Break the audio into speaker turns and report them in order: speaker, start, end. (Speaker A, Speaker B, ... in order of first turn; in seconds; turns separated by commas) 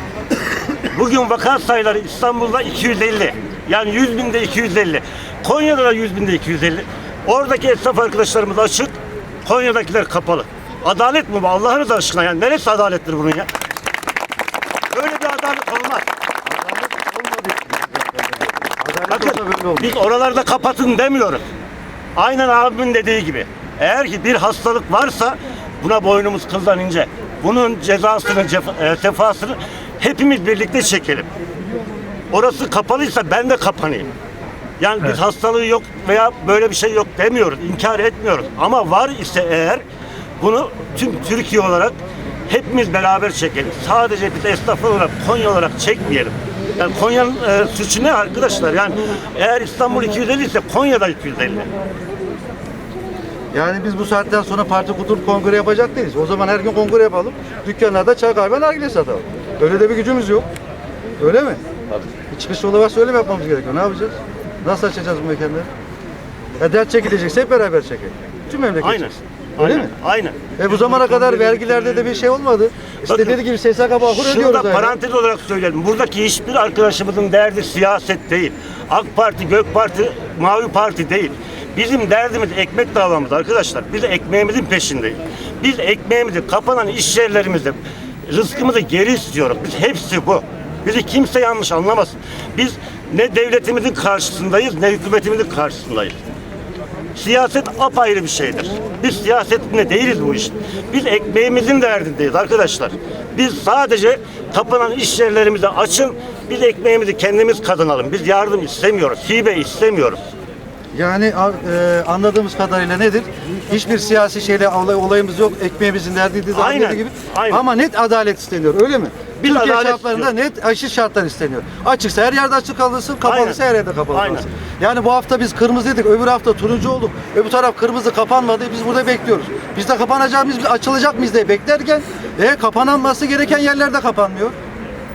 Speaker A: 0.9-13.5, Speaker A: 14.9-16.1, Speaker B: 16.5-19.9, Speaker A: 19.1-21.5, Speaker A: 22.2-31.3, Speaker A: 32.3-34.1, Speaker A: 34.8-39.8, Speaker A: 40.4-42.0, Speaker A: 42.5-51.7, Speaker B: 53.5-60.5, Speaker B: 61.2-61.6, Speaker B: 62.3-65.7, Speaker B: 66.6-69.1, Speaker A: 68.8-72.0, Speaker B: 69.6-69.9, Speaker B: 70.6-75.0, Speaker A: 73.0-73.4, Speaker A: 74.0-96.2, Speaker A: 97.2-110.2, Speaker B: 110.9-134.6, Speaker A: 116.5-117.6, Speaker A: 119.4-120.3, Speaker A: 123.2-123.6, Speaker A: 124.1-124.5